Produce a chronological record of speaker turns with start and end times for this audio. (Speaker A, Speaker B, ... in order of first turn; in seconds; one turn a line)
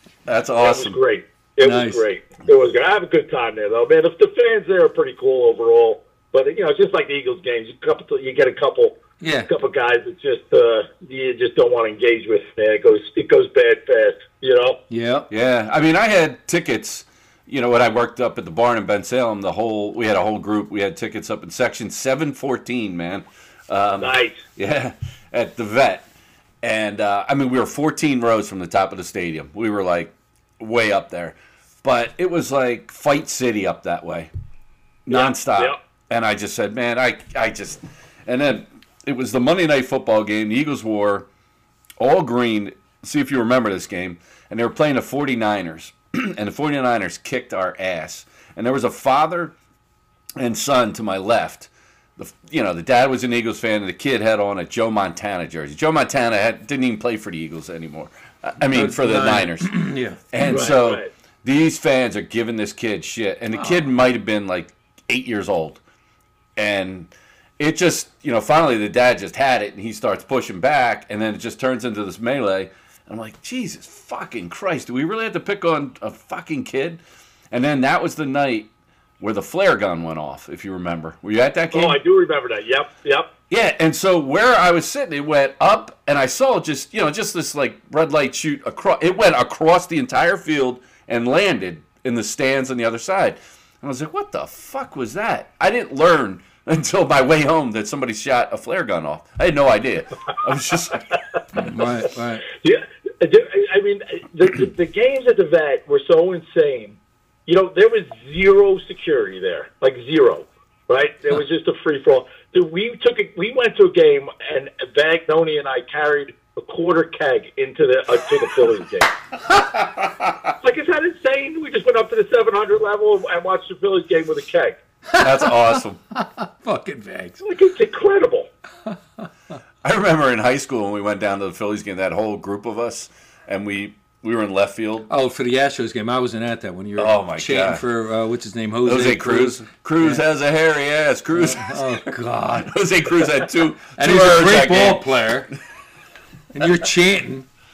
Speaker A: 0.3-1.0
Speaker B: 0.6-14.8
Speaker C: 1.6-2.0
Speaker C: 9.2-9.5
Speaker C: 14.9-15.3
Speaker A: 15.3-26.1
Speaker B: 24.0-24.4
Speaker A: 26.6-34.3
Speaker A: 35.1-41.3
Speaker B: 35.1-35.8
Speaker A: 42.0-49.5
Speaker A: 50.4-59.7
Speaker C: 58.7-60.2
Speaker A: 60.3-65.8
Speaker B: 60.4-61.1
Speaker C: 63.5-63.9
Speaker A: 66.5-77.0
Speaker A: 77.5-78.7
Speaker A: 79.2-82.0
Speaker B: 81.7-83.3
Speaker A: 83.5-101.0
Speaker C: 101.5-102.4
Speaker B: 102.5-119.1
Speaker A: 119.5-120.5
Speaker B: 120.6-124.8
Speaker C: 125.1-127.4
Speaker A: 125.2-126.0
Speaker B: 127.4-128.5
Speaker A: 129.8-135.1
Speaker C: 135.1-140.2
Speaker A: 137.0-137.8
Speaker A: 138.8-141.9
Speaker C: 141.3-142.7
Speaker A: 142.6-145.1
Speaker C: 143.9-145.5
Speaker C: 146.5-147.4